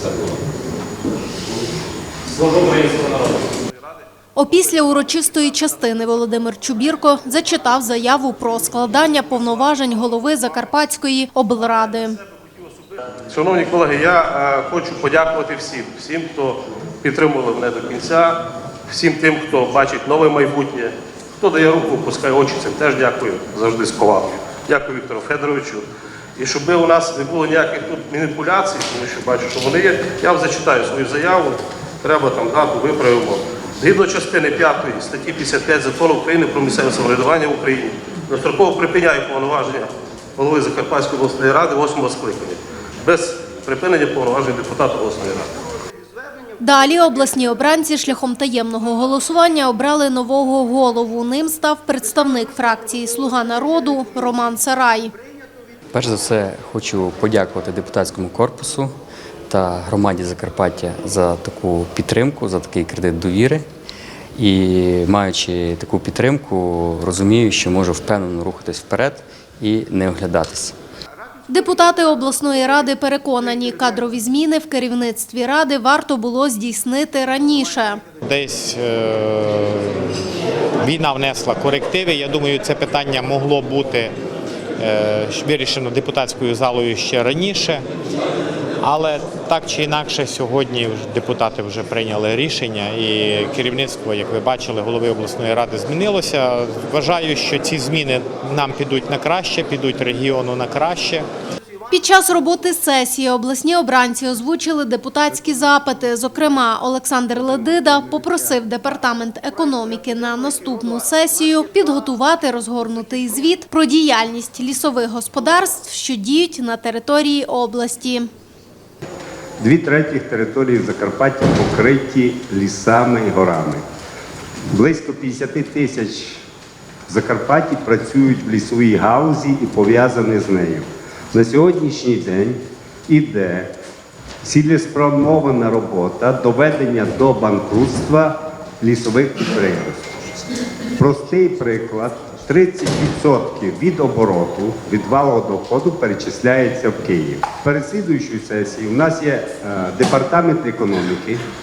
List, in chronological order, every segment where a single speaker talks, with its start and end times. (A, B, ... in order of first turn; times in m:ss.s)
0:02.3-0:04.0 A
0:04.3-0:12.2 B
0:04.7-0:05.2 A
0:12.6-0:25.8 A
0:26.4-0:45.5 A
0:46.6-0:55.1 B
0:55.9-0:59.0 C
0:59.5-1:03.7 C
1:04.3-1:10.8 C
1:11.5-1:18.0 B
1:18.2-1:20.2 D
1:20.8-1:24.2 D
1:24.8-1:27.8 D
1:28.8-1:41.3 D
1:41.9-1:58.3 B
1:59.6-2:03.8 E
2:04.7-2:06.4 E
2:07.1-2:13.7 E
2:14.4-2:20.2 E
2:21.0-2:31.4 E